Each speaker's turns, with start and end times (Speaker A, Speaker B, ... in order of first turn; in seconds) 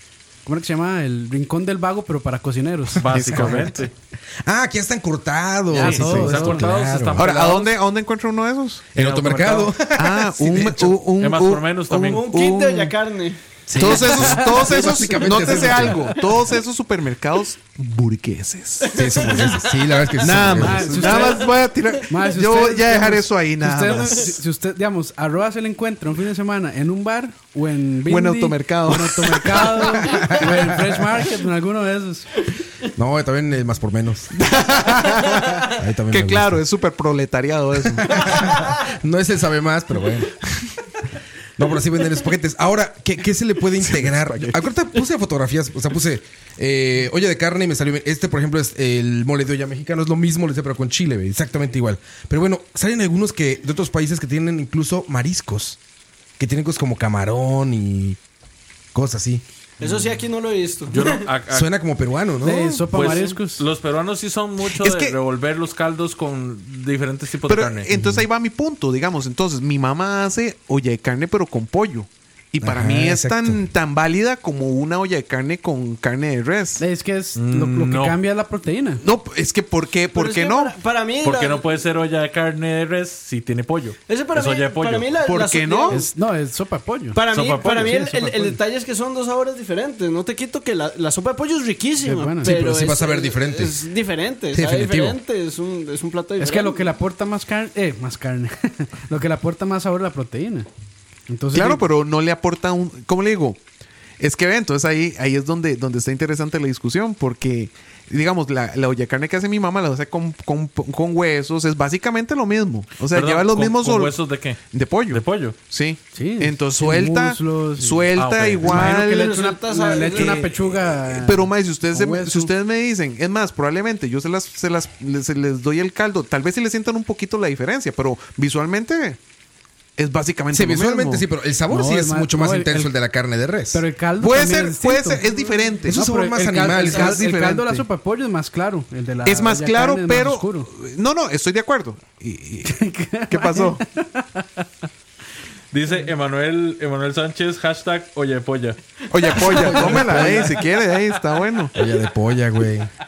Speaker A: 0.5-3.1, 5.7-6.7, 20.4-21.6, 22.1-32.3, 62.4-63.6, 76.8-79.0, 85.9-88.6, 92.0-92.6, 96.4-100.7, 101.3-101.8, 116.2-118.1, 118.6-122.5, 131.7-132.9, 133.7-135.2, 135.9-140.7, 142.7-144.7, 149.5-150.6
Speaker B: 3.0-3.9, 5.7-7.7, 8.9-9.7, 11.2-12.3, 60.9-61.7, 62.9-67.9, 77.4-78.2, 81.2-85.1, 87.3-88.0, 113.1-115.6, 118.2-118.7, 145.7-148.8
Speaker C: 3.1-3.8, 5.9-6.3, 7.2-8.9, 9.9-12.9, 13.8-18.9, 20.2-24.4, 28.1-30.1, 34.3-35.5, 36.1-38.3, 43.8-44.6, 64.7-65.2, 67.5-76.8, 79.0-80.8, 85.2-86.0, 101.5-103.6, 104.2-114.2, 114.7-119.4, 120.0-120.5, 121.1-129.2, 130.0-131.2, 134.2-136.0, 136.8-137.9, 139.2-143.8, 149.1-151.8
Speaker D: 3.2-3.7, 4.5-7.5, 8.9-10.9, 13.7-16.2, 18.9-21.2, 33.0-34.3, 35.8-36.6, 37.9-40.4, 41.6-55.8, 56.4-58.2, 58.9-59.4, 61.5-62.9, 68.0-68.2, 72.6-73.6, 92.4-93.9, 94.5-95.2, 130.5-133.8, 135.8-137.2, 151.8-152.9
Speaker E: 11.9-15.9, 18.9-20.1, 21.1-21.5, 35.2-35.5, 38.3-38.6, 59.8-61.2, 80.1-81.7, 84.1-86.1, 87.1-96.9, 118.7-120.5